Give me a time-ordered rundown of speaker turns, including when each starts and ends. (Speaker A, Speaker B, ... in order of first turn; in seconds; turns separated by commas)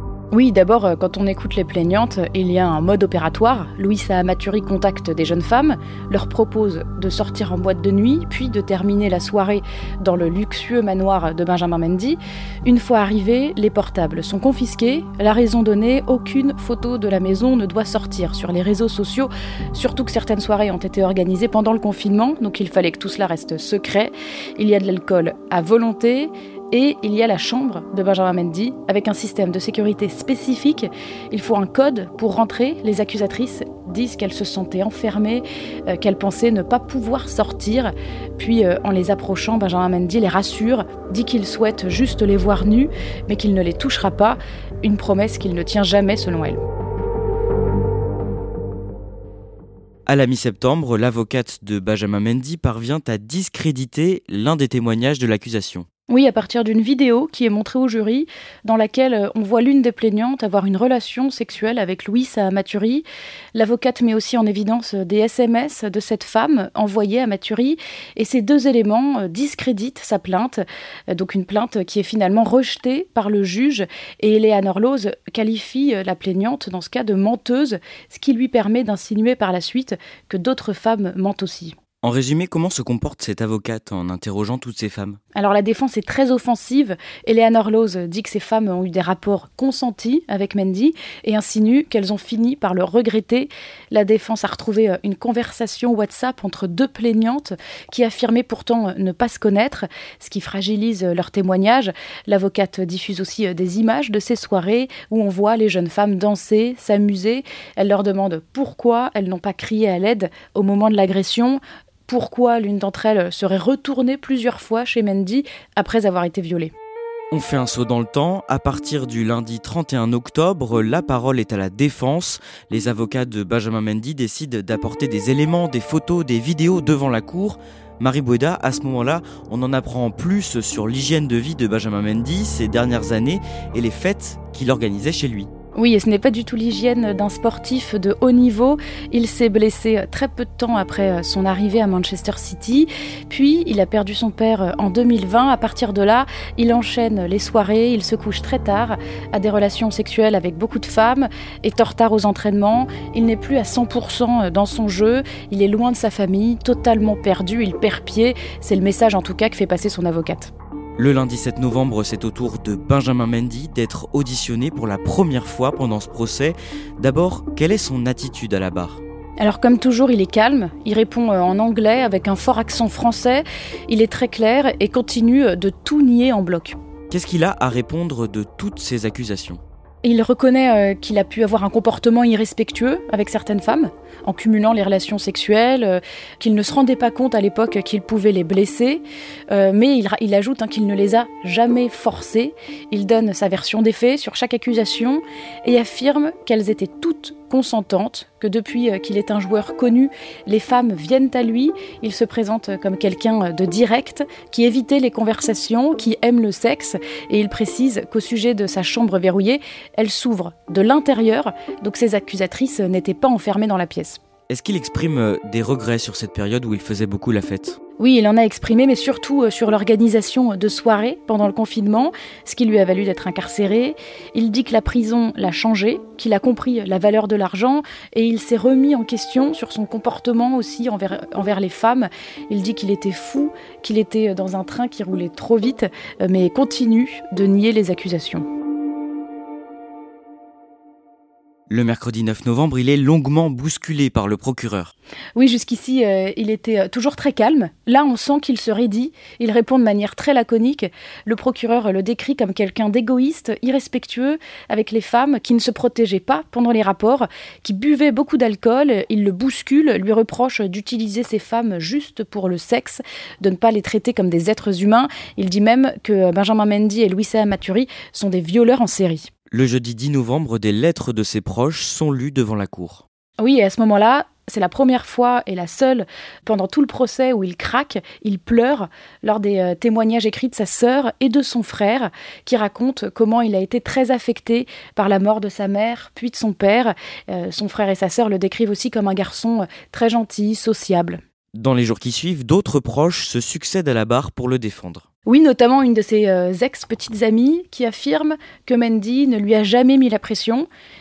Speaker A: 0.3-46.6, Speaker B: 50.1-55.9, Speaker A: 56.1-63.0, Speaker A: 63.5-81.8, Speaker B: 82.0-85.2, Speaker A: 85.3-116.7, Speaker B: 117.3-135.5, Speaker A: 135.8-160.5, Speaker B: 161.0-169.0, Speaker A: 169.4-176.8, Speaker B: 177.1-179.6, Speaker A: 180.0-214.2, Speaker B: 214.5-217.8, Speaker A: 218.0-238.5, Speaker B: 241.7-244.9, Speaker A: 245.4-269.3, Speaker B: 269.5-273.0, Speaker A: 273.4-291.2, Speaker B: 291.6-295.1, Speaker A: 295.3-300.7